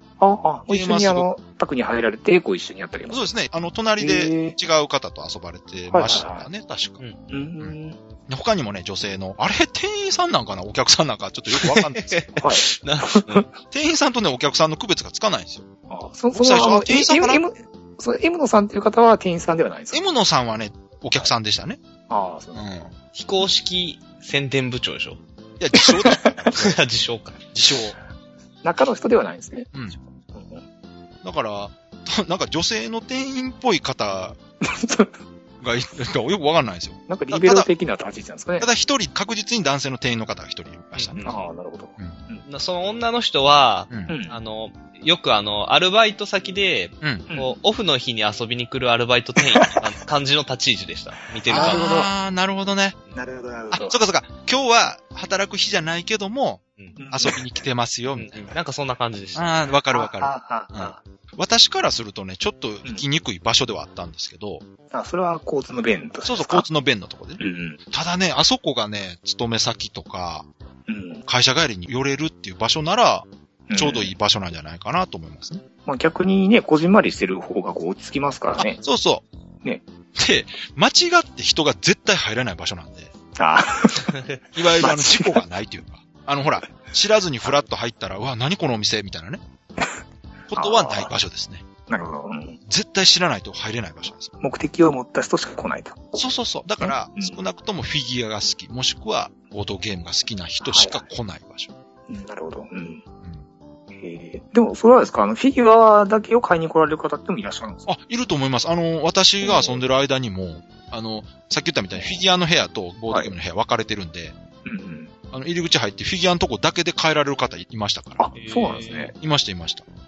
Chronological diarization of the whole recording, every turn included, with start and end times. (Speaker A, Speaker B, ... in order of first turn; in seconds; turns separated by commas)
Speaker A: 0.2-3.3, Speaker B: 0.7-1.3, Speaker B: 3.1-7.0, Speaker A: 4.0-4.6, Speaker A: 5.9-6.5, Speaker A: 7.3-8.0, Speaker B: 8.3-12.4, Speaker C: 11.5-13.4, Speaker A: 12.4-13.5, Speaker B: 13.7-15.7, Speaker A: 15.9-20.0, Speaker B: 16.3-17.4, Speaker B: 19.9-21.8, Speaker A: 22.1-22.6, Speaker B: 22.5-22.9, Speaker C: 23.1-25.2, Speaker B: 25.6-26.8, Speaker A: 25.8-26.5, Speaker C: 26.5-27.4, Speaker B: 27.5-27.9, Speaker A: 28.6-30.6, Speaker B: 31.2-34.4, Speaker A: 34.6-35.1, Speaker B: 35.6-37.7, Speaker A: 37.1-38.7, Speaker B: 38.6-41.3, Speaker C: 40.9-41.5, Speaker A: 41.2-42.4, Speaker C: 42.4-52.0, Speaker A: 44.1-44.4, Speaker B: 47.0-47.3, Speaker A: 47.3-47.6, Speaker A: 49.5-49.8, Speaker A: 51.5-52.1, Speaker B: 51.5-53.0, Speaker A: 53.1-54.0, Speaker B: 53.7-58.5, Speaker A: 57.0-57.5, Speaker C: 58.1-59.5, Speaker B: 59.3-64.6, Speaker A: 59.9-61.0, Speaker A: 64.9-66.7, Speaker B: 66.2-70.5, Speaker A: 67.4-67.8, Speaker A: 70.9-71.2, Speaker B: 71.2-75.6, Speaker A: 73.7-74.1, Speaker A: 75.8-78.8, Speaker B: 78.6-79.2, Speaker B: 80.2-83.1, Speaker A: 83.3-84.2, Speaker B: 84.5-89.4, Speaker A: 84.8-85.4, Speaker B: 90.5-91.6, Speaker A: 90.5-91.1, Speaker A: 91.9-92.6, Speaker B: 92.7-94.3, Speaker A: 94.4-96.2, Speaker B: 96.2-101.7, Speaker A: 96.8-97.4, Speaker A: 100.6-101.0, Speaker A: 102.1-103.0, Speaker A: 103.9-107.9, Speaker B: 107.8-114.3, Speaker A: 109.4-109.8, Speaker A: 111.9-112.2, Speaker A: 114.6-115.1, Speaker B: 115.3-118.3, Speaker A: 118.2-119.1, Speaker C: 118.3-119.1, Speaker B: 119.1-119.8